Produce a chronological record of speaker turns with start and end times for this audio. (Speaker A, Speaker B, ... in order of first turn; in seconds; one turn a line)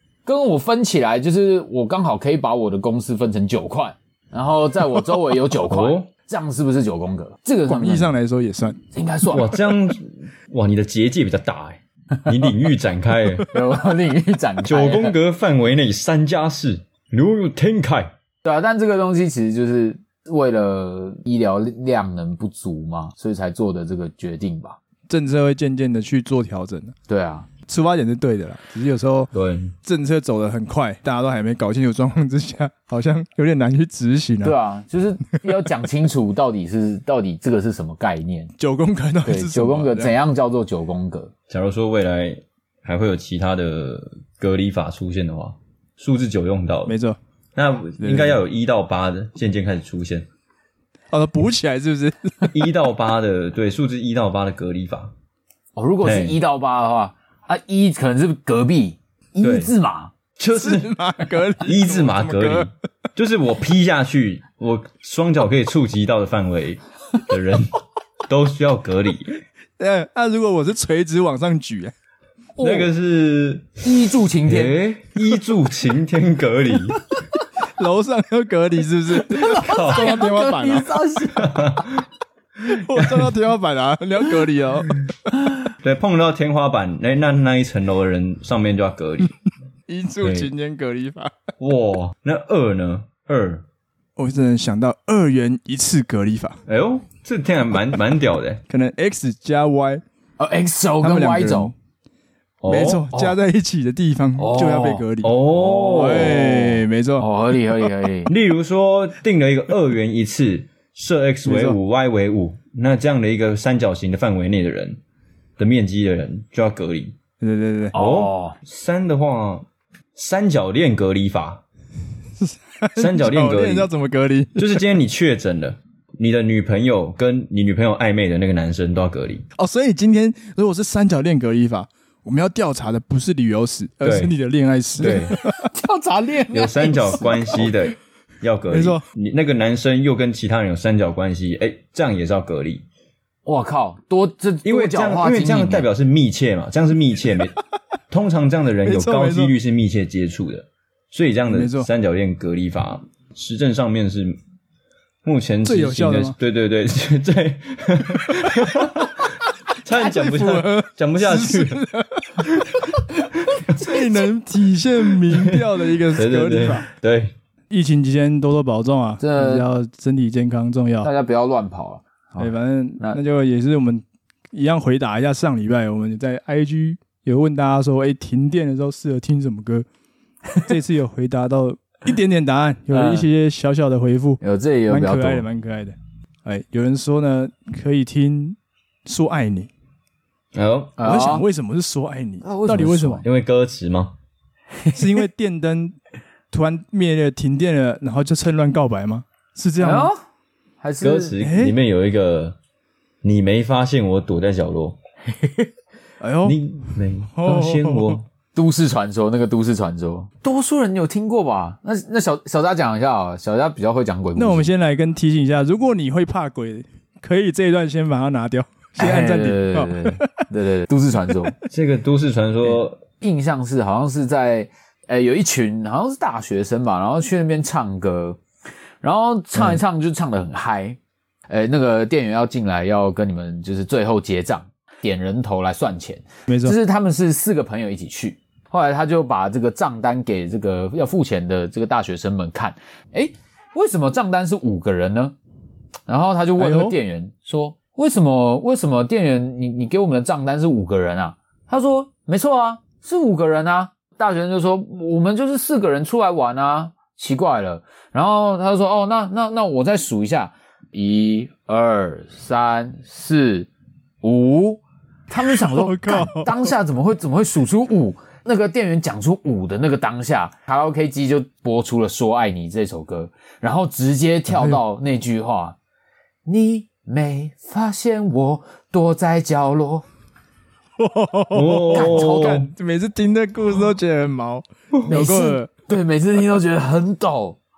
Speaker A: 0.2-8.1
Speaker B: 5.7-6.1
Speaker C: 7.7-8.8
Speaker A: 8.9-9.6
Speaker B: 9.3-13.6
Speaker A: 13.5-15.2
Speaker B: 14.6-18.1
Speaker A: 18.4-24.8
Speaker C: 25.1-26.9
Speaker A: 27.1-27.5
Speaker C: 27.7-29.3
Speaker B: 29.3-29.7
Speaker C: 29.8-34.5
Speaker A: 34.4-38.5
Speaker C: 38.6-40.1
Speaker A: 39.2-41.3
Speaker B: 41.5-46.9
Speaker C: 46.9-47.2
Speaker B: 47.5-50.3
Speaker C: 48.0-48.4
Speaker C: 51.1-52.5
Speaker B: 52.5-55.1
Speaker A: 55.8-60.1
Speaker B: 56.0-56.4
Speaker B: 59.4-59.7
Speaker B: 60.4-60.9
Speaker C: 60.5-62.7
Speaker B: 61.6-69.4
Speaker C: 69.8-71.9
Speaker A: 72.6-72.9
Speaker B: 72.6-73.8
Speaker A: 73.8-74.8
Speaker B: 74.5-77.0
Speaker C: 77.8-80.9
Speaker A: 79.2-81.8
Speaker B: 79.6-80.2
Speaker B: 81.4-82.0
Speaker C: 82.7-85.0
Speaker B: 82.7-83.3
Speaker B: 85.8-89.3
Speaker C: 89.9-91.3
Speaker B: 90.2-90.5
Speaker B: 91.6-93.6
Speaker C: 94.2-96.6
Speaker B: 96.7-98.6
Speaker C: 98.7-100.0
Speaker A: 100.4-101.7
Speaker C: 101.0-101.7
Speaker B: 102.6-103.0
Speaker C: 102.7-105.3
Speaker A: 104.4-108.3
Speaker B: 105.2-106.5
Speaker C: 105.9-107.3
Speaker B: 108.2-115.0
Speaker C: 111.4-111.8
Speaker B: 115.6-117.2
Speaker C: 117.4-117.9
Speaker A: 117.9-118.5
Speaker B: 117.9-121.6
Speaker C: 122.4-124.8
Speaker B: 123.0-123.9
Speaker B: 124.5-129.4
Speaker C: 129.6-135.6
Speaker B: 134.0-134.3
Speaker B: 135.0-135.4
Speaker A: 135.0-137.7
Speaker B: 136.5-142.8
Speaker C: 138.7-139.0
Speaker A: 143.4-145.9
Speaker B: 144.6-147.6
Speaker B: 148.1-154.4
Speaker C: 148.8-149.5
Speaker C: 151.5-151.9
Speaker B: 155.2-161.8
Speaker C: 155.6-156.3
Speaker C: 160.1-163.0
Speaker C: 163.7-166.9
Speaker A: 163.8-164.1
Speaker B: 165.3-167.3
Speaker C: 167.7-171.1
Speaker A: 169.2-169.7
Speaker A: 171.0-173.2
Speaker C: 172.4-179.8
Speaker C: 180.6-189.7
Speaker A: 182.9-183.3
Speaker A: 184.4-185.4
Speaker B: 190.5-191.0
Speaker A: 191.0-191.4
Speaker C: 191.0-193.2
Speaker A: 192.4-193.2
Speaker B: 193.2-194.2
Speaker A: 194.8-195.2
Speaker C: 194.9-195.9
Speaker C: 196.5-200.1
Speaker A: 199.8-200.2
Speaker A: 200.8-201.3
Speaker B: 201.0-202.6
Speaker C: 201.4-201.8
Speaker B: 203.2-205.0
Speaker A: 205.3-205.7
Speaker C: 206.2-206.6
Speaker B: 206.4-208.2
Speaker C: 207.3-208.2
Speaker A: 208.5-214.7
Speaker C: 214.3-220.4
Speaker A: 219.0-221.6
Speaker B: 221.7-223.0
Speaker A: 223.2-228.4
Speaker A: 229.0-231.0
Speaker A: 231.5-245.3
Speaker C: 236.5-236.8
Speaker A: 246.1-263.7
Speaker C: 246.6-246.9
Speaker A: 264.2-275.8
Speaker C: 265.4-266.7
Speaker C: 274.5-274.8
Speaker A: 276.4-280.0
Speaker C: 281.0-285.7
Speaker B: 281.5-282.7
Speaker A: 281.9-282.7
Speaker A: 285.1-287.6